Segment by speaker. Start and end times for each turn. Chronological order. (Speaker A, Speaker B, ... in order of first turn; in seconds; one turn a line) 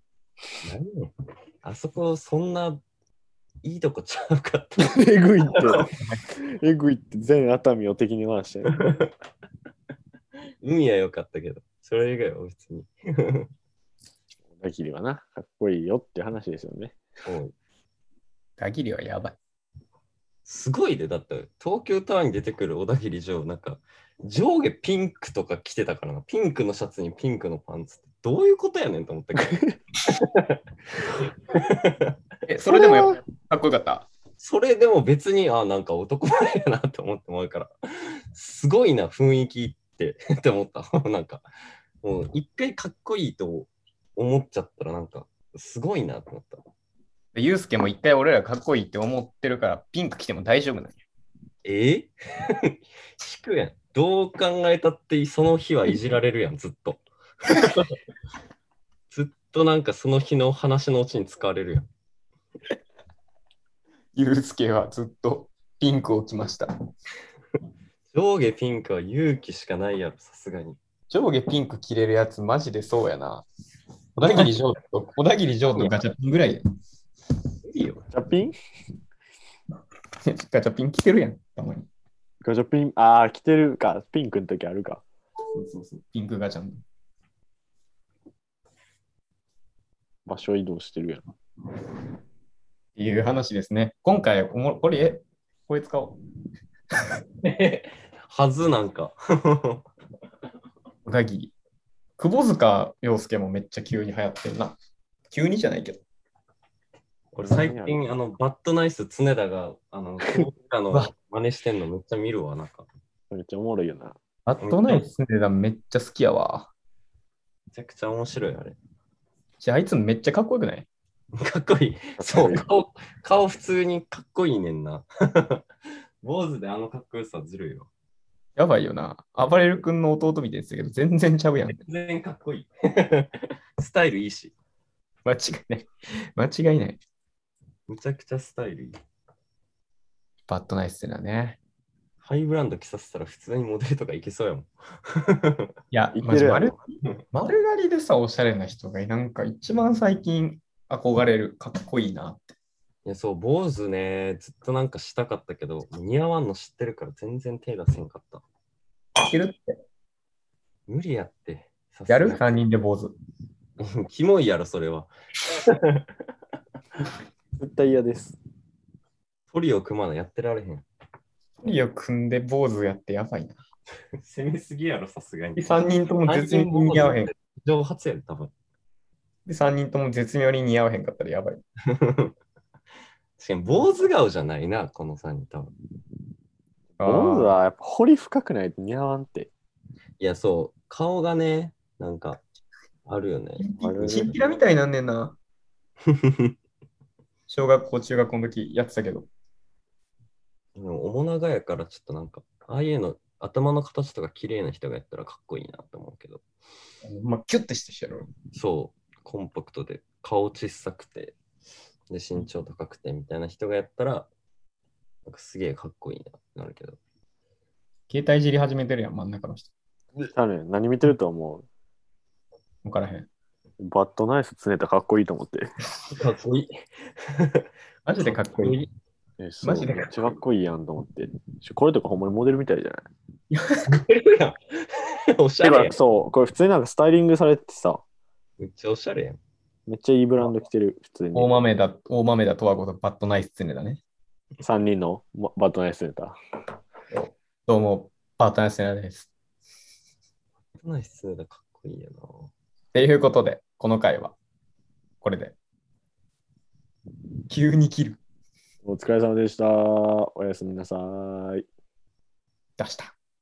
Speaker A: 0.6-1.1
Speaker A: 1.6-2.8
Speaker A: 3.6-5.8
Speaker B: 4.8-5.9
Speaker C: 5.7-6.2
Speaker B: 6.5-8.8
Speaker A: 8.7-9.1
Speaker A: 10.6-13.5
Speaker B: 14.5-16.9
Speaker A: 17.2-17.5
Speaker C: 18.6-19.4
Speaker A: 20.4-30.6
Speaker B: 29.4-29.7
Speaker A: 31.1-32.1
Speaker C: 32.5-34.1
Speaker B: 32.7-33.2
Speaker A: 34.4-41.4
Speaker A: 42.0-46.6
Speaker C: 47.4-50.9
Speaker A: 51.6-57.0
Speaker A: 57.6-57.9
Speaker A: 59.1-61.9
Speaker C: 64.1-66.7
Speaker A: 68.1-70.8
Speaker C: 71.1-73.4
Speaker C: 74.2-76.6
Speaker A: 74.2-74.5
Speaker A: 77.7-78.0
Speaker B: 78.1-78.5
Speaker C: 80.2-81.9
Speaker B: 82.4-85.0
Speaker C: 85.5-86.8
Speaker B: 90.2-91.2
Speaker C: 93.0-96.2
Speaker A: 97.4-99.8
Speaker C: 101.0-101.5
Speaker C: 102.2-104.8
Speaker C: 105.3-106.0
Speaker A: 107.3-112.9
Speaker B: 107.4-108.0
Speaker B: 113.3-114.2
Speaker C: 114.4-116.7
Speaker A: 114.6-115.1
Speaker A: 117.7-118.8
Speaker C: 119.6-120.9
Speaker A: 121.4-125.6
Speaker B: 122.2-122.7
Speaker A: 126.2-127.9
Speaker C: 128.6-131.8
Speaker A: 131.7-134.5
Speaker C: 135.2-137.0
Speaker A: 137.9-139.0
Speaker C: 140.5-141.6
Speaker A: 142.2-145.7
Speaker C: 145.9-152.5
Speaker B: 146.1-146.7
Speaker A: 153.1-158.4
Speaker C: 159.2-159.8
Speaker A: 160.9-162.6
Speaker C: 162.1-163.1
Speaker A: 163.8-165.1
Speaker A: 165.6-166.1
Speaker B: 167.6-168.4
Speaker A: 169.5-170.8
Speaker C: 171.6-173.6
Speaker A: 174.2-178.5
Speaker C: 175.6-177.3
Speaker C: 179.4-181.6
Speaker A: 181.9-182.3
Speaker A: 183.4-185.7
Speaker C: 187.0-187.6
Speaker B: 187.0-189.5
Speaker A: 190.2-192.4
Speaker A: 193.1-194.3
Speaker C: 193.6-195.4
Speaker B: 193.8-194.4
Speaker A: 196.1-196.5
Speaker C: 197.5-199.3
Speaker A: 200.8-206.4
Speaker C: 207.0-208.3
Speaker A: 208.5-211.4
Speaker A: 212.1-214.3
Speaker A: 215.2-217.0
Speaker C: 218.1-219.7
Speaker B: 220.3-221.7
Speaker C: 222.8-223.3
Speaker B: 223.8-225.7
Speaker A: 226.1-227.7
Speaker C: 228.0-228.8
Speaker A: 228.2-228.9
Speaker B: 229.4-233.0
Speaker C: 229.6-230.4
Speaker C: 233.5-234.0
Speaker A: 233.9-236.0
Speaker B: 235.6-238.0
Speaker A: 238.6-239.4
Speaker B: 239.9-241.6
Speaker C: 241.3-244.0
Speaker B: 244.6-246.4
Speaker C: 247.1-249.3
Speaker A: 250.8-252.5
Speaker C: 252.9-254.4
Speaker C: 255.2-255.6
Speaker C: 257.5-258.2
Speaker B: 258.8-261.6
Speaker C: 262.8-263.1